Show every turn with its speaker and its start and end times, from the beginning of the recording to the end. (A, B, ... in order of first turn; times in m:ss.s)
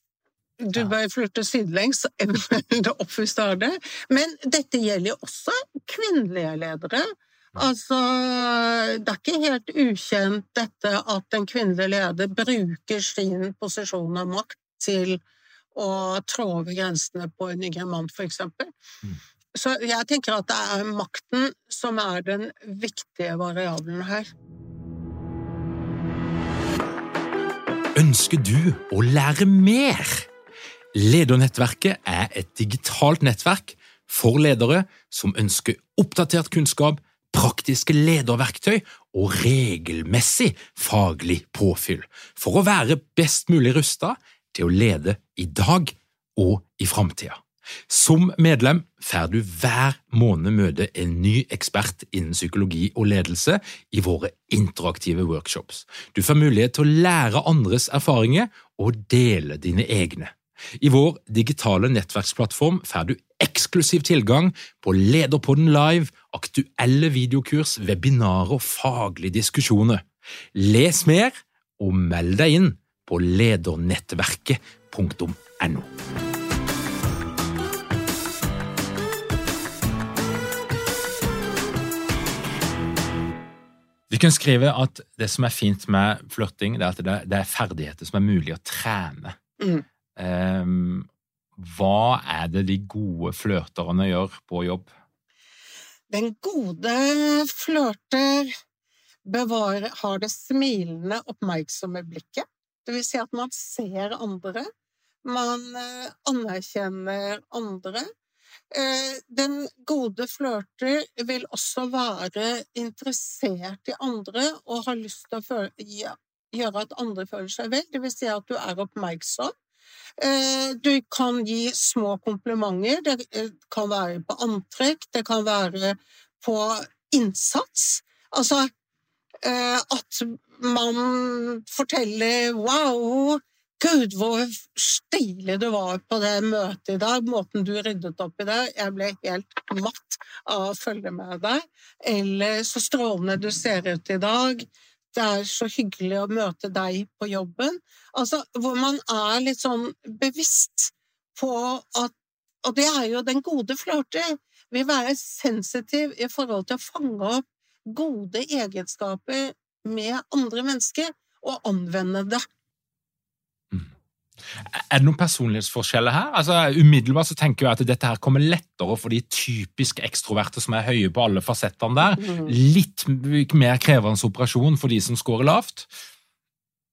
0:00.6-0:15.2 A
0:15.7-0:18.7 A
0:19.6-0:24.3 A
0:28.0-0:30.3 B
0:31.0-1:15.9 B
1:24.1-1:29.4 B
1:29.6-1:29.8 A
1:30.2-1:34.9 B
1:36.1-1:38.5 A
1:39.3-1:44.7 A
1:45.2-1:48.1 A
1:48.7-1:59.5 A
2:00.2-2:08.7 A
2:09.4-2:42.4 A
2:44.5-2:55.9 B
2:52.2-2:52.6 A